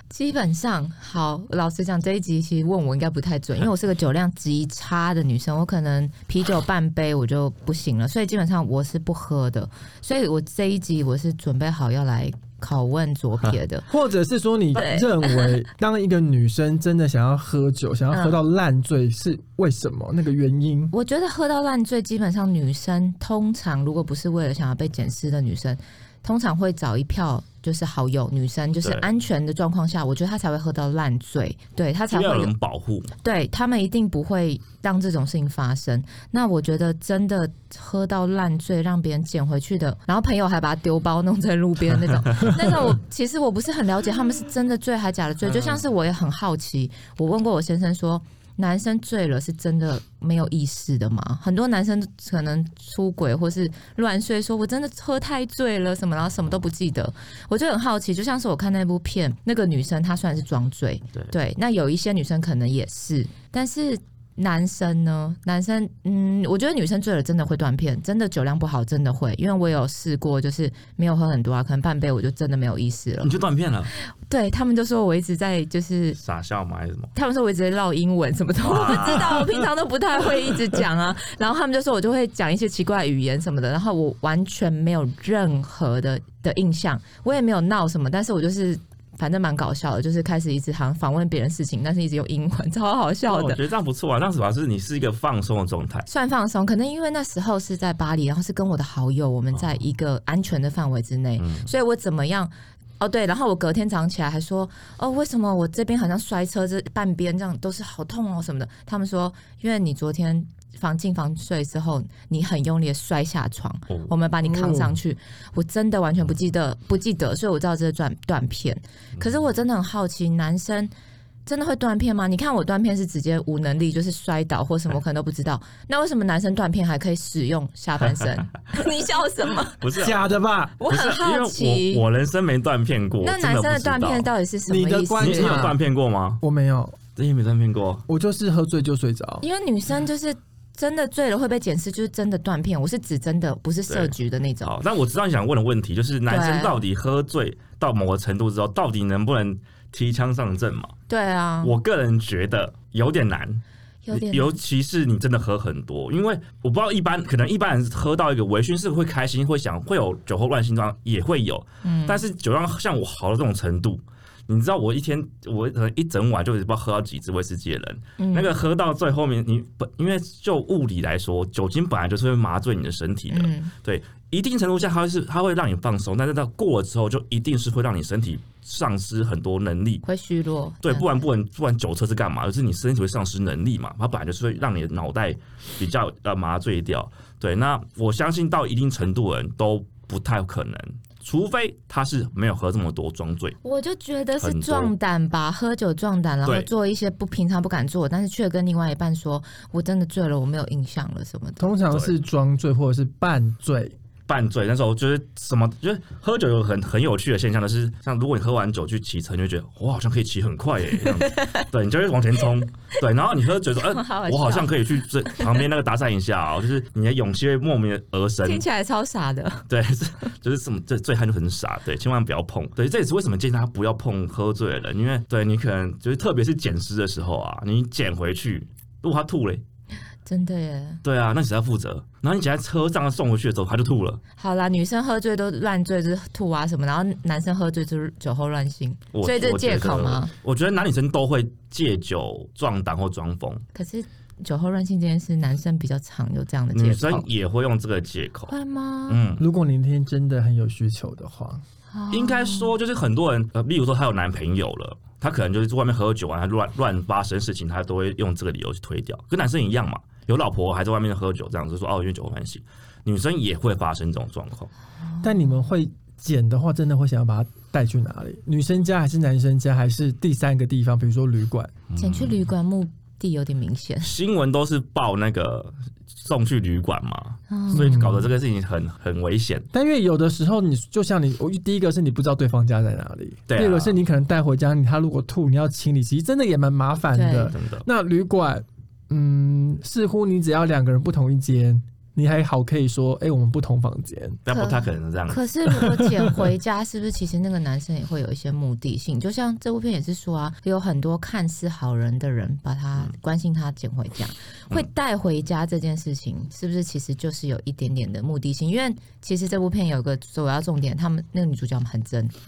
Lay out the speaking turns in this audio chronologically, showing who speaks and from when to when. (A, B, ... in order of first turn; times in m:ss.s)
0:00.1-0:13.8 A
0:13.9-0:20.9 B
0:14.7-0:15.5 A
0:18.1-0:18.4 A
0:20.9-0:32.5 A
0:32.1-0:33.1 C
0:33.2-1:13.3 A
0:42.2-0:42.7 C
0:45.5-0:45.8 C
1:13.2-1:13.9 C
1:14.0-1:16.2 A
1:16.2-1:17.1 C
1:17.1-1:33.6 A
1:18.6-1:19.5 C
1:33.3-1:36.1 C
1:36.1-2:00.9 A
1:41.4-1:41.7 C
1:54.4-1:54.9 B
2:01.4-2:09.9 A
2:09.8-2:10.2 C
2:10.0-2:10.7 B
2:10.8-2:12.0 A
2:10.9-2:14.3 C
2:13.2-2:15.7 A
2:14.7-2:15.8 B
2:15.2-2:16.4 C
2:16.4-2:17.0 B
2:17.2-2:18.0 C
2:18.1-2:19.4 B
2:19.4-2:24.7 A
2:23.9-2:30.9 C
2:26.3-2:26.8 A
2:31.1-2:31.8 A
2:31.6-3:00.0 C
2:34.0-2:34.6 A
2:41.8-2:42.2 A
2:48.2-2:48.5 A
2:53.3-2:53.7 A
3:00.0-3:01.0 A
3:00.8-3:13.6 C
3:13.6-3:21.7 A
3:14.4-3:14.9 C
3:21.6-3:23.9 B
3:24.3-3:38.6 C
3:31.2-3:31.6 A
3:33.8-3:35.6 A
3:38.4-3:39.6 A
3:39.7-3:49.6 C
3:50.2-3:51.0 A
3:51.0-3:54.2 C
3:54.4-4:00.3 A
3:59.1-4:03.6 C
4:03.7-4:07.2 A
4:06.7-4:08.5 C
4:08.5-4:09.2 A
4:09.1-4:09.4 C
4:09.4-4:11.6 B
4:11.9-4:12.7 A
4:12.1-4:24.7 C
4:25.0-4:25.6 A
4:25.2-4:31.7 B
4:31.9-4:32.5 C
4:32.0-4:34.1 A
4:34.0-4:39.7 C
4:37.5-4:38.1 A
4:37.7-4:38.3 B
4:39.7-4:54.4 B
4:43.5-4:44.0 C
4:47.1-4:47.5 A
4:47.5-4:47.8 C
4:54.4-4:55.4 C
4:54.5-5:12.3 A
4:55.7-4:56.3 B